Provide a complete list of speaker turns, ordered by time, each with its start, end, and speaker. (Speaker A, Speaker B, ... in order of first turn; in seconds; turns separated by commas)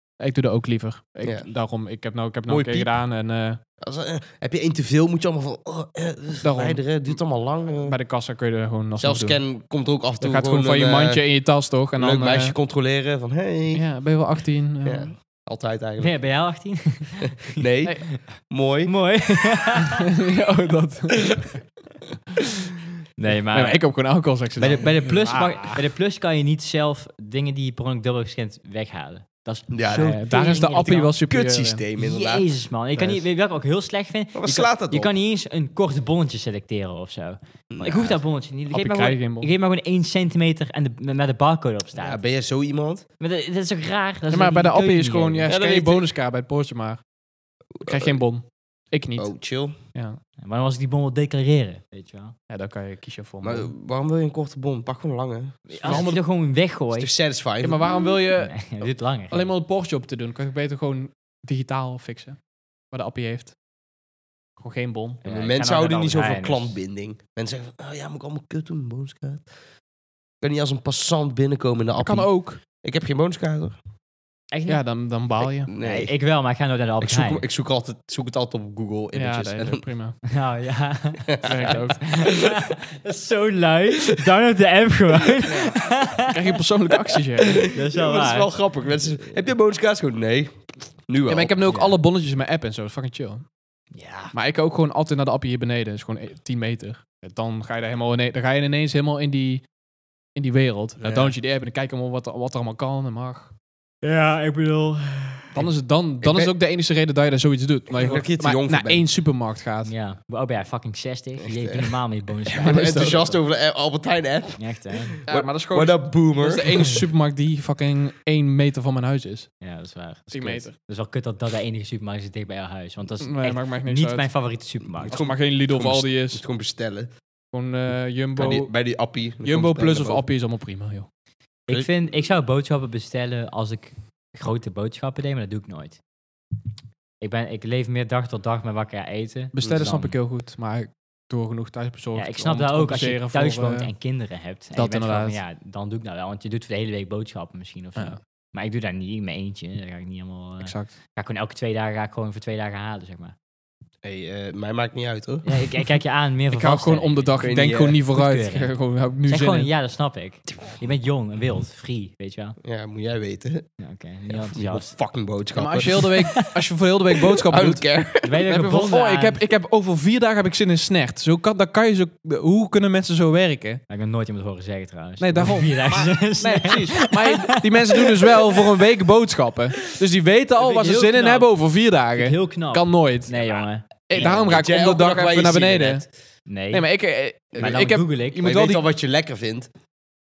Speaker A: 0.2-3.6, Speaker B: 2.5-2.9, Speaker B: 3.8-8.0, Speaker A: 6.4-7.2, Speaker A: 7.8-9.4, Speaker B: 9.0-11.2, Speaker A: 10.2-12.6, Speaker B: 12.0-13.8, Speaker A: 13.7-15.1, Speaker B: 14.8-16.2, Speaker C: 16.0-20.1, Speaker B: 17.5-18.9, Speaker A: 19.9-21.6, Speaker C: 23.2-23.8, Speaker A: 23.5-25.8, Speaker C: 24.6-31.1, Speaker B: 29.7-33.2, Speaker A: 29.9-31.8, Speaker C: 32.0-42.2, Speaker B: 34.4-35.1, Speaker B: 37.7-38.2, Speaker A: 38.7-39.5, Speaker B: 42.0-43.0, Speaker C: 43.2-45.6, Speaker A: 44.3-47.0, Speaker B: 45.5-46.0, Speaker B: 47.8-48.2, Speaker A: 47.9-50.2, Speaker B: 49.2-49.8, Speaker C: 50.4-52.4, Speaker A: 52.5-53.7, Speaker B: 53.4-56.1, Speaker C: 55.7-57.1, Speaker A: 55.8-56.2, Speaker B: 56.9-58.0, Speaker A: 57.6-58.7, Speaker C: 58.4-59.5, Speaker A: 59.3-62.4, Speaker A: 62.9-63.5, Speaker A: 64.6-65.2, Speaker C: 65.2-66.8, Speaker B: 65.2-69.5, Speaker B: 70.4-73.8, Speaker A: 72.0-72.6, Speaker C: 74.5-74.8, Speaker A: 74.7-75.7, Speaker B: 75.7-76.1, Speaker C: 75.8-77.4, Speaker B: 77.0-79.8, Speaker A: 79.1-80.2, Speaker C: 80.3-86.4, Speaker B: 81.3-82.4, Speaker A: 81.4-82.3, Speaker A: 85.5-87.6, Speaker B: 87.5-91.6, Speaker C: 87.7-88.7, Speaker A: 91.3-93.5, Speaker C: 91.7-92.0, Speaker C: 93.9-94.3, Speaker A: 94.3-99.6, Speaker A: 100.3-103.5, Speaker B: 101.0-101.3, Speaker C: 104.0-105.6, Speaker A: 105.5-109.9, Speaker B: 106.2-106.6, Speaker B: 108.0-109.0, Speaker C: 109.8-113.4, Speaker B: 111.4-111.9, Speaker B: 112.5-117.0, Speaker A: 112.6-113.2, Speaker C: 114.6-115.2, Speaker A: 115.3-119.5, Speaker C: 119.6-125.2, Speaker A: 120.3-120.8, Speaker A: 123.2-124.3, Speaker B: 125.0-127.1, Speaker A: 125.0-126.4, Speaker A: 127.5-128.8, Speaker B: 128.4-130.2, Speaker A: 129.4-131.1, Speaker C: 131.7-136.0, Speaker C: 137.2-140.2, Speaker A: 139.5-143.9, Speaker B: 139.6-139.8, Speaker C: 142.2-153.3, Speaker A: 144.7-145.4, Speaker A: 150.6-150.9, Speaker B: 154.1-155.5, Speaker C: 155.4-158.7, Speaker A: 156.5-159.7, Speaker B: 157.4-158.0, Speaker C: 159.2-162.6, Speaker B: 162.6-163.7, Speaker C: 163.8-164.9, Speaker B: 164.3-166.1, Speaker A: 165.6-167.9, Speaker C: 165.9-166.5, Speaker B: 167.5-168.4, Speaker C: 168.2-169.4, Speaker A: 168.4-173.8, Speaker C: 173.9-178.6, Speaker A: 175.2-183.3, Speaker C: 180.6-181.5, Speaker C: 182.2-184.4, Speaker B: 183.4-186.1, Speaker A: 184.1-186.1, Speaker C: 186.5-186.9, Speaker A: 186.7-188.8, Speaker B: 187.6-187.8, Speaker C: 187.6-188.4, Speaker B: 188.4-189.7